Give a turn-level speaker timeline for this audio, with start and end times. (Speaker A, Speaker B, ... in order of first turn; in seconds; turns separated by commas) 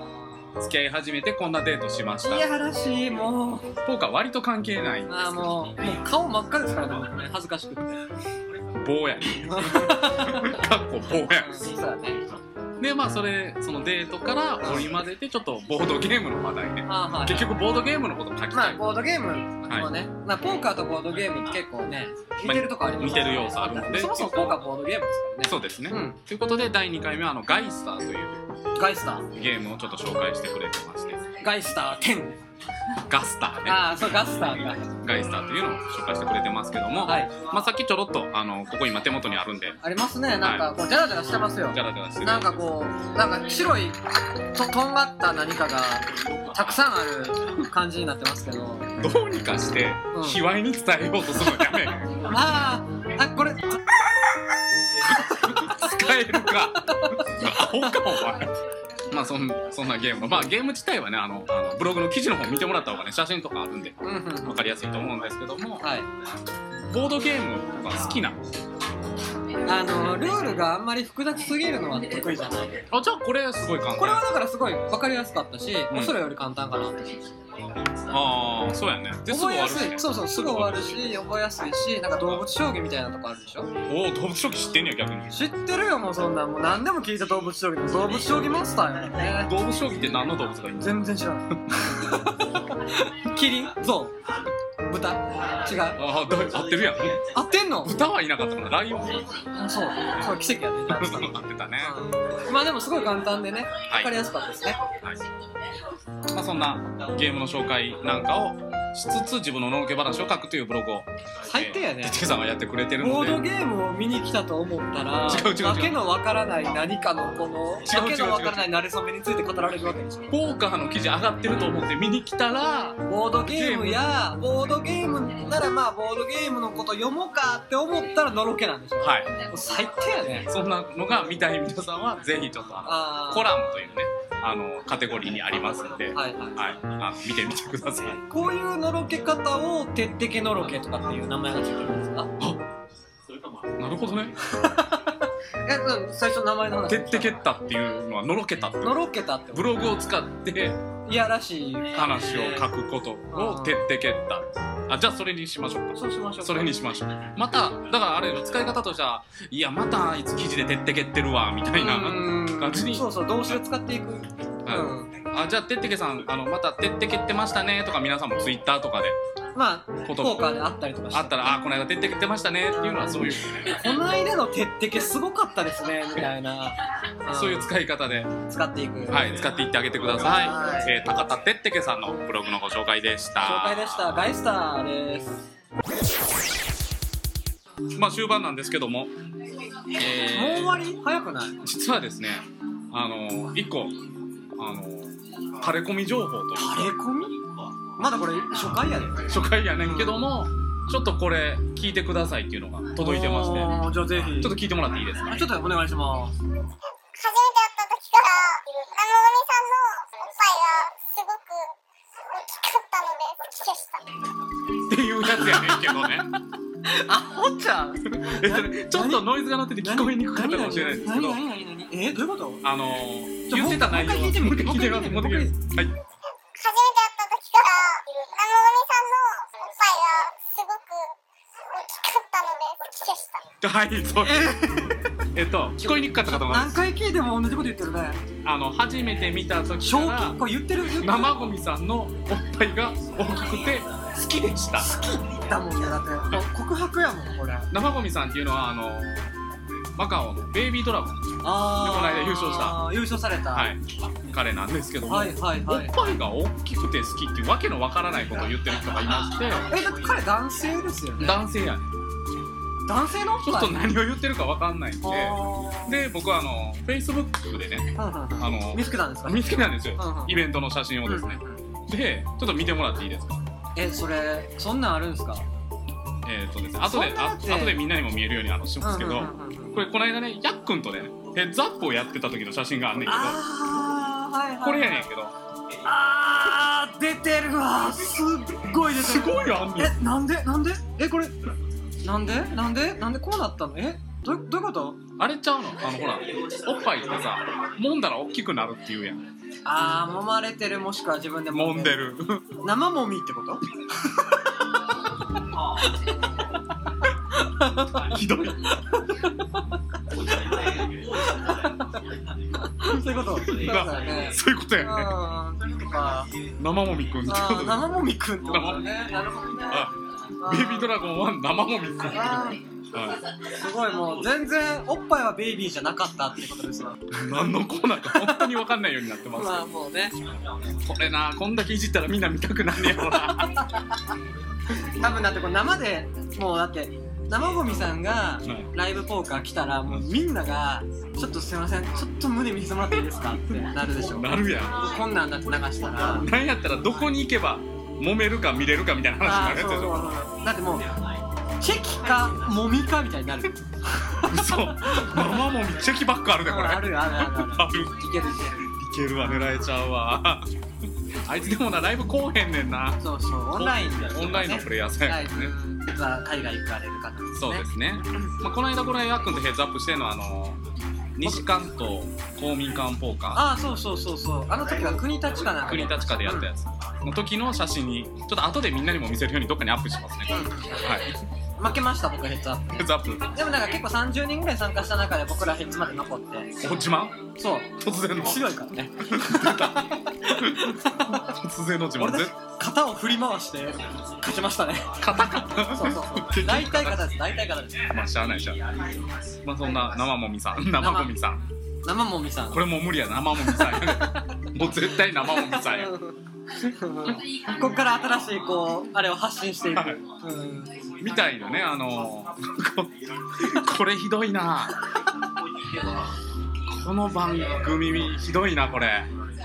Speaker A: 0.6-2.5, Speaker B: 2.2-3.7, Speaker A: 3.9-5.4, Speaker B: 5.1-8.0, Speaker A: 8.8-11.7, Speaker B: 9.4-10.6, Speaker B: 11.3-12.2, Speaker A: 12.8-18.9, Speaker B: 16.9-17.6, Speaker B: 18.5-26.2, Speaker A: 19.6-19.9, Speaker A: 22.4-24.6, Speaker A: 25.5-28.4, Speaker B: 28.8-29.3, Speaker A: 29.3-31.2, Speaker B: 31.4-32.4, Speaker A: 33.1-33.8, Speaker B: 33.7-34.9, Speaker A: 35.0-39.8, Speaker B: 37.0-37.3, Speaker B: 39.8-44.0, Speaker A: 40.4-40.7, Speaker A: 41.7-42.5, Speaker B: 44.5-48.9, Speaker A: 49.0-52.1, Speaker B: 50.1-50.4, Speaker B: 52.2-53.7, Speaker A: 55.1-58.5, Speaker B: 56.9-57.2, Speaker A: 59.1-65.8, Speaker B: 64.0-64.6, Speaker B: 65.8-66.1, Speaker A: 66.9-68.4, Speaker B: 69.7-72.8, Speaker A: 72.9-74.2, Speaker B: 74.0-77.2, Speaker A: 75.9-76.2, Speaker A: 78.1-81.2, Speaker B: 79.3-83.7, Speaker A: 83.9-85.3, Speaker B: 85.3-89.5, Speaker A: 89.4-91.0, Speaker B: 90.8-92.2, Speaker A: 91.7-92.2, Speaker B: 92.7-94.2, Speaker B: 94.9-96.0, Speaker A: 96.0-97.3, Speaker B: 97.3-97.9, Speaker A: 97.8-99.3, Speaker B: 99.6-104.8, Speaker A: 100.9-102.0, Speaker A: 103.9-104.1, Speaker A: 106.3-113.4, Speaker B: 111.5-112.2, Speaker B: 113.0-120.3, Speaker A: 115.3-116.0, Speaker A: 117.9-118.7, Speaker A: 120.3-124.1, Speaker B: 123.1-130.5, Speaker A: 129.0-129.3, Speaker A: 130.5-138.2, Speaker B: 132.8-133.5, Speaker B: 136.1-136.6, Speaker B: 138.3-142.3, Speaker A: 143.8-144.4, Speaker B: 144.5-145.0, Speaker B: 145.7-147.4, Speaker A: 146.9-150.8, Speaker B: 148.8-149.8, Speaker B: 151.1-152.7, Speaker A: 151.9-163.6, Speaker B: 153.3-153.8, Speaker B: 155.9-156.8, Speaker B: 161.7-165.1, Speaker A: 164.7-169.2, Speaker B: 169.6-171.5, Speaker A: 170.1-170.5, Speaker A: 171.1-173.8, Speaker B: 172.8-177.7, Speaker A: 177.3-178.3, Speaker B: 178.5-179.3, Speaker A: 179.1-184.3, Speaker B: 180.1-180.9, Speaker B: 183.4-185.4, Speaker A: 187.9-189.1, Speaker A: 189.9-190.8, Speaker B: 190.3-191.6, Speaker A: 191.6-194.0, Speaker A: 194.6-196.9, Speaker B: 196.6-197.4, Speaker B: 198.0-199.2, Speaker A: 199.2-205.5, Speaker B: 199.8-200.3, Speaker B: 203.0-204.6, Speaker B: 205.3-206.3, Speaker C: 207.2-211.7, Speaker C: 212.3-214.0, Speaker A: 214.9-216.3, Speaker B: 215.3-216.1, Speaker B: 216.8-222.6, Speaker A: 218.1-221.4, Speaker A: 222.6-225.9, Speaker B: 223.5-225.6, Speaker C: 226.6-231.1, Speaker C: 231.7-233.5, Speaker A: 233.6-234.5, Speaker B: 234.2-235.0, Speaker A: 235.3-236.8, Speaker B: 235.8-238.2, Speaker A: 238.4-240.4, Speaker B: 239.8-241.4, Speaker A: 241.0-244.9, Speaker B: 244.8-247.7, Speaker A: 247.7-249.3, Speaker A: 250.0-251.2, Speaker B: 251.4-253.7, Speaker A: 251.8-252.8, Speaker A: 253.5-253.8, Speaker A: 254.3-259.7, Speaker B: 255.1-256.2, Speaker B: 259.7-261.4, Speaker A: 261.2-261.9, Speaker B: 262.9-263.9, Speaker A: 263.4-273.4, Speaker B: 265.0-266.0, Speaker B: 268.0-270.4, Speaker B: 271.1-271.6, Speaker B: 273.8-275.4, Speaker A: 276.2-283.4, Speaker B: 276.9-277.8, Speaker B: 278.8-279.8, Speaker B: 283.1-285.1, Speaker A: 284.6-285.4, Speaker B: 285.9-291.3, Speaker A: 288.9-290.0, Speaker B: 292.0-295.0, Speaker A: 295.2-299.2, Speaker B: 299.6-304.4, Speaker A: 301.5-302.4, Speaker B: 307.3-308.1, Speaker A: 307.9-308.8, Speaker B: 308.9-309.6, Speaker B: 311.2-311.9, Speaker B: 312.6-316.3, Speaker A: 313.5-315.2, Speaker A: 316.6-318.9, Speaker B: 317.3-319.9, Speaker A: 319.7-323.2, Speaker B: 320.4-320.9, Speaker B: 322.1-322.6, Speaker B: 323.6-327.5, Speaker A: 327.2-329.7, Speaker B: 328.1-328.5, Speaker B: 329.3-330.1, Speaker A: 330.8-333.6, Speaker B: 333.1-333.9, Speaker B: 334.9-346.3, Speaker A: 343.5-345.0, Speaker A: 346.0-350.1, Speaker B: 349.2-350.9, Speaker B: 351.6-355.3, Speaker A: 354.3-357.9, Speaker B: 356.4-358.6, Speaker A: 358.7-360.4, Speaker A: 361.3-363.0, Speaker B: 363.0-367.6, Speaker A: 363.5-365.5, Speaker A: 367.4-370.6, Speaker A: 371.2-373.4, Speaker B: 373.4-376.5, Speaker A: 375.5-381.1, Speaker B: 380.3-380.8, Speaker B: 381.6-386.5, Speaker A: 382.7-383.4, Speaker A: 386.6-387.2, Speaker B: 387.4-391.2, Speaker A: 387.8-388.5, Speaker A: 389.0-392.3, Speaker B: 392.0-395.0, Speaker A: 395.0-397.2, Speaker B: 395.6-397.9, Speaker A: 397.9-398.6, Speaker A: 399.4-401.5, Speaker B: 400.8-401.1, Speaker B: 401.8-402.6, Speaker A: 402.5-405.9, Speaker B: 403.4-404.2, Speaker B: 405.2-410.7, Speaker A: 409.7-410.0, Speaker A: 411.0-414.8, Speaker A: 416.7-419.1